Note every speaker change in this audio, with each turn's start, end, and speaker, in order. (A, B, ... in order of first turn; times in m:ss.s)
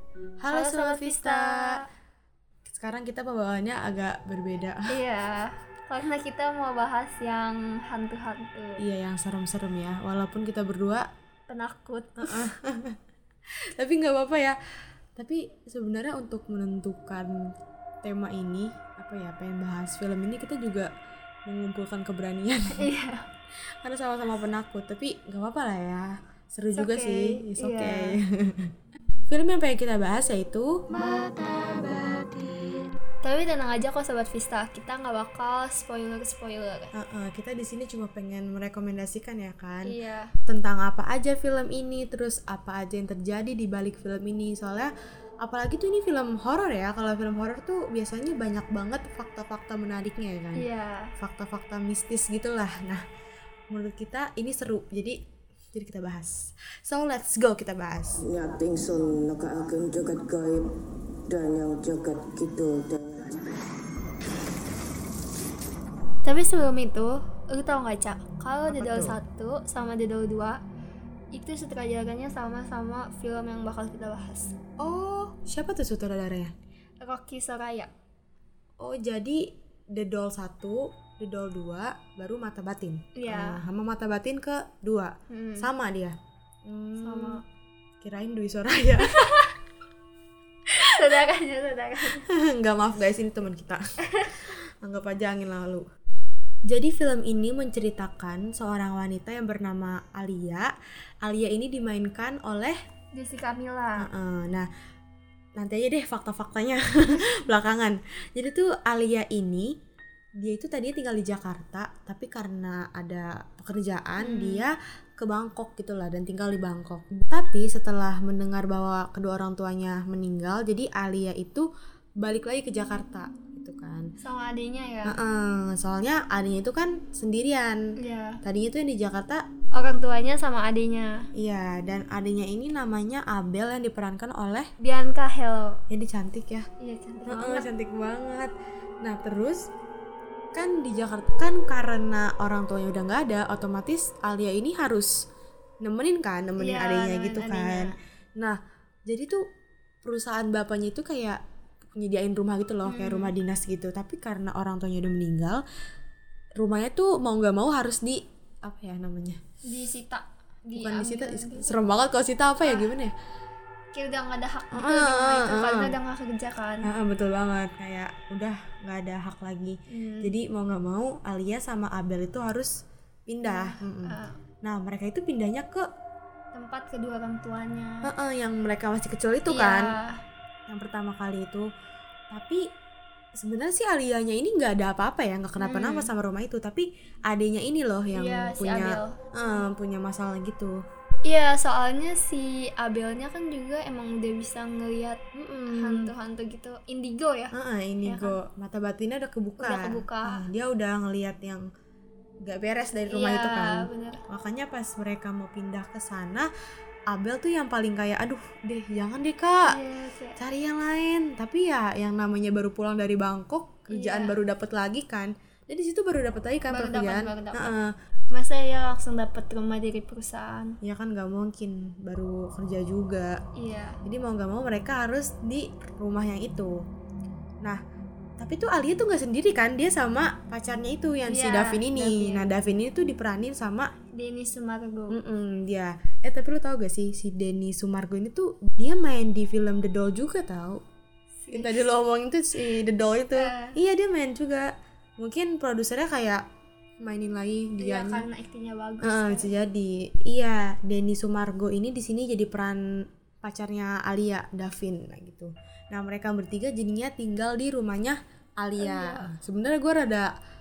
0:00.4-0:01.8 A
0:00.5-0:01.8 B
0:02.6-0:04.9 A
0:04.9-0:08.8 B
0:08.8-0:11.1 A
0:11.5-0:12.4 B
0:12.2-0:13.0 A
0:13.6-0:14.6 A
0:15.1-0:17.3 A
0:18.0-0:20.9 A
0:21.4-0:22.9 A
0:22.7-0:23.2 B
0:23.8-0:28.7 A
0:26.7-0:28.2 B
0:29.3-0:31.2 A
0:33.2-0:36.9 B
0:36.9-0:39.9 A
0:39.8-0:40.3 B
0:40.4-0:44.9 A
0:45.4-0:53.0 A
0:50.5-0:51.1 B
0:53.7-0:55.2 A
0:55.7-0:58.2 A
0:58.2-1:00.8 C
1:01.3-1:03.7 C
1:06.2-1:10.6 B
1:08.7-1:09.2 A
1:11.3-1:14.5 B
1:14.8-1:16.5 A
1:17.0-1:17.9 B
1:18.8-1:27.4 A
1:23.2-1:23.6 B
1:25.3-1:25.7 B
1:27.0-1:27.4 B
1:28.0-1:29.4 A
1:29.0-1:29.5 B
1:30.8-1:31.1 A
1:30.8-1:32.2 B
1:32.1-1:35.8 A
1:34.1-1:34.4 B
1:36.7-1:40.7 A
1:41.2-1:42.8 A
1:43.1-1:44.1 B
1:44.0-1:44.7 A
1:45.6-1:49.7 A
1:50.4-2:01.7 A
1:54.2-1:54.6 B
2:02.2-2:04.1 A
2:04.2-2:05.2 B
2:05.0-2:07.9 A
2:08.0-2:08.4 B
2:08.4-2:09.4 A
2:09.7-2:11.3 B
2:11.3-2:14.7 A
2:14.8-2:15.8 B
2:15.9-2:16.7 A
2:16.8-2:17.7 B
2:17.3-2:19.7 A
2:20.5-2:25.1 A
2:25.8-2:29.4 A
2:26.6-2:28.0 B
2:30.0-2:31.4 A
2:31.9-2:35.6 A
2:32.8-2:33.3 B
2:36.6-2:39.4 A
2:39.6-2:41.8 B
2:40.7-2:43.1 A
2:42.6-2:42.9 B
2:43.9-2:46.9 B
2:44.7-2:45.9 A
2:46.8-2:55.8 A
2:49.9-2:50.3 B
2:53.4-2:54.4 B
2:56.5-2:58.1 B
2:58.0-2:59.9 A
2:59.5-3:00.2 B
3:00.7-3:01.7 A
3:02.3-3:02.7 A
3:03.4-3:10.8 A
3:05.6-3:06.1 B
3:08.1-3:09.2 B
3:11.2-3:17.5 B
3:15.3-3:16.1 A
3:17.5-3:21.6 A
3:18.0-3:18.4 B
3:19.6-3:20.4 B
3:22.4-3:26.5 A
3:23.1-3:24.2 B
3:27.1-3:29.8 A
3:29.6-3:30.4 B
3:30.4-3:37.9 A
3:33.9-3:34.4 B
3:36.7-3:37.7 B
3:38.3-3:40.8 B
3:40.8-3:43.4 A
3:43.6-3:44.0 B
3:44.0-3:46.7 A
3:48.4-3:53.9 A
3:51.3-3:52.4 B
3:54.1-3:55.2 B
3:55.1-4:00.8 A
4:01.4-4:01.8 B
4:01.5-4:06.4 A
4:03.3-4:03.8 B
4:07.0-4:08.2 A
4:07.8-4:09.5 B
4:09.0-4:12.8 A
4:13.4-4:20.3 A
4:18.8-4:19.3 B